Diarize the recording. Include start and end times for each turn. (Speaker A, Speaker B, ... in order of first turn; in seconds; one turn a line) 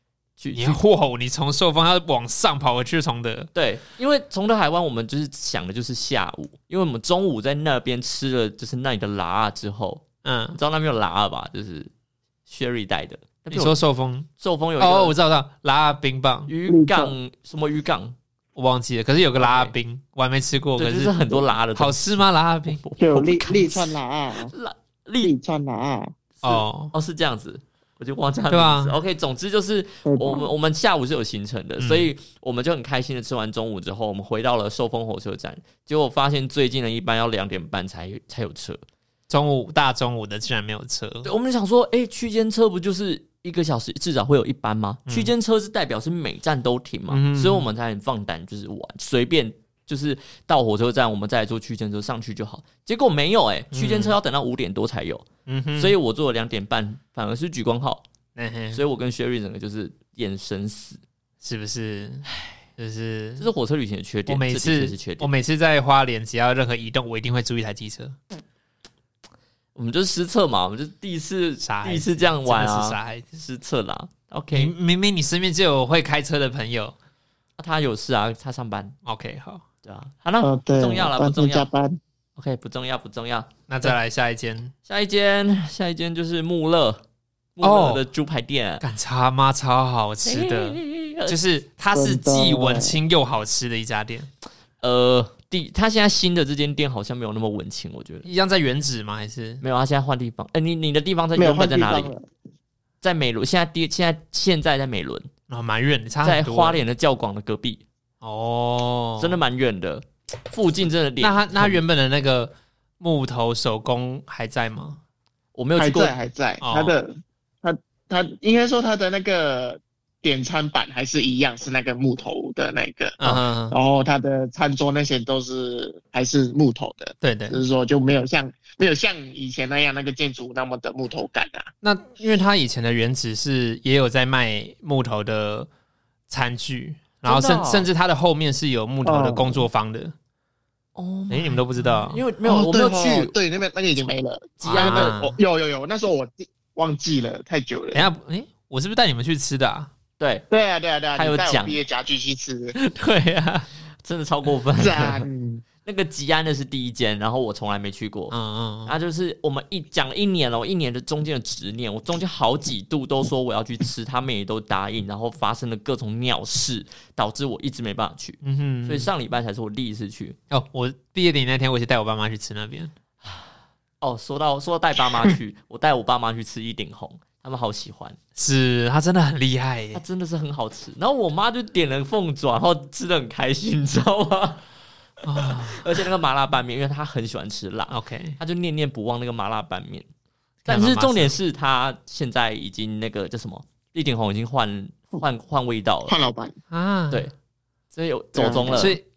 Speaker A: 0.4-0.8
Speaker B: 0.5-3.5
Speaker A: 3.5-11.9
Speaker B: 10.2-10.6
Speaker A: 12.5-13.8
Speaker B: 13.5-16.5
Speaker A: 14.4-15.2
Speaker A: 16.5-18.2
Speaker C: 16.7-17.1
Speaker B: 18.6-22.8
Speaker A: 19.4-19.7
Speaker A: 20.8-25.4
Speaker C: 23.0-24.5
Speaker C: 25.2-26.1
Speaker A: 26.4-38.8
Speaker B: 26.4-26.9
Speaker B: 28.5-29.0
Speaker C: 30.1-30.5
Speaker B: 31.8-32.1
Speaker B: 39.3-41.3
Speaker A: 41.2-58.0
Speaker B: 45.1-45.3
Speaker B: 47.1-47.7
Speaker B: 53.7-54.2
Speaker B: 55.5-56.0
Speaker B: 58.4-58.8
Speaker A: 58.7-61.0
Speaker B: 61.4-62.2
Speaker B: 62.8-63.5
Speaker A: 63.4-65.3
Speaker B: 64.3-68.2
Speaker A: 69.8-74.7
Speaker B: 71.6-73.3
Speaker B: 74.5-77.0
Speaker A: 77.6-78.9
Speaker B: 79.0-79.6
Speaker A: 79.8-81.7
Speaker C: 80.4-82.0
Speaker A: 82.4-83.9
Speaker B: 83.7-84.7
Speaker A: 84.9-87.0
Speaker A: 87.6-88.8
Speaker B: 87.6-88.0
Speaker B: 88.8-94.3
Speaker A: 90.2-91.4
Speaker C: 91.9-93.0
Speaker A: 94.8-98.3
Speaker B: 98.2-99.6
Speaker A: 99.6-102.1
Speaker C: 101.4-102.2
Speaker A: 103.0-105.3
Speaker B: 105.5-106.8
Speaker A: 106.2-107.8
Speaker B: 108.2-109.4
Speaker A: 109.2-111.8
Speaker B: 111.2-115.0
Speaker A: 115.5-116.1
Speaker C: 115.8-131.7
Speaker B: 116.6-117.0
Speaker B: 123.2-123.8
Speaker B: 127.2-127.6
Speaker B: 131.8-135.7
Speaker B: 136.3-140.1
Speaker A: 137.2-137.9
Speaker C: 139.1-139.7
Speaker A: 141.0-143.3
Speaker B: 141.3-142.2
Speaker C: 142.4-148.1
Speaker A: 144.6-145.1
Speaker B: 144.7-145.4
Speaker B: 147.9-149.9
Speaker A: 150.2-150.5
Speaker C: 150.5-152.8
Speaker A: 151.2-151.8
Speaker B: 152.8-153.7
Speaker A: 154.0-155.3
Speaker C: 154.8-155.6
Speaker A: 155.8-158.3
Speaker B: 158.3-158.9
Speaker A: 158.9-170.4
Speaker B: 168.4-169.1
Speaker B: 170.5-172.9
Speaker A: 173.2-173.5
Speaker A: 174.0-178.2
Speaker B: 178.3-180.0
Speaker A: 179.9-184.6
Speaker B: 185.2-186.1
Speaker A: 185.3-190.1
Speaker B: 187.9-188.4
Speaker B: 190.7-191.3
Speaker A: 190.7-196.2
Speaker C: 196.1-196.6
Speaker B: 196.7-197.3
Speaker A: 197.9-199.0
Speaker C: 198.4-198.9
Speaker B: 198.7-199.0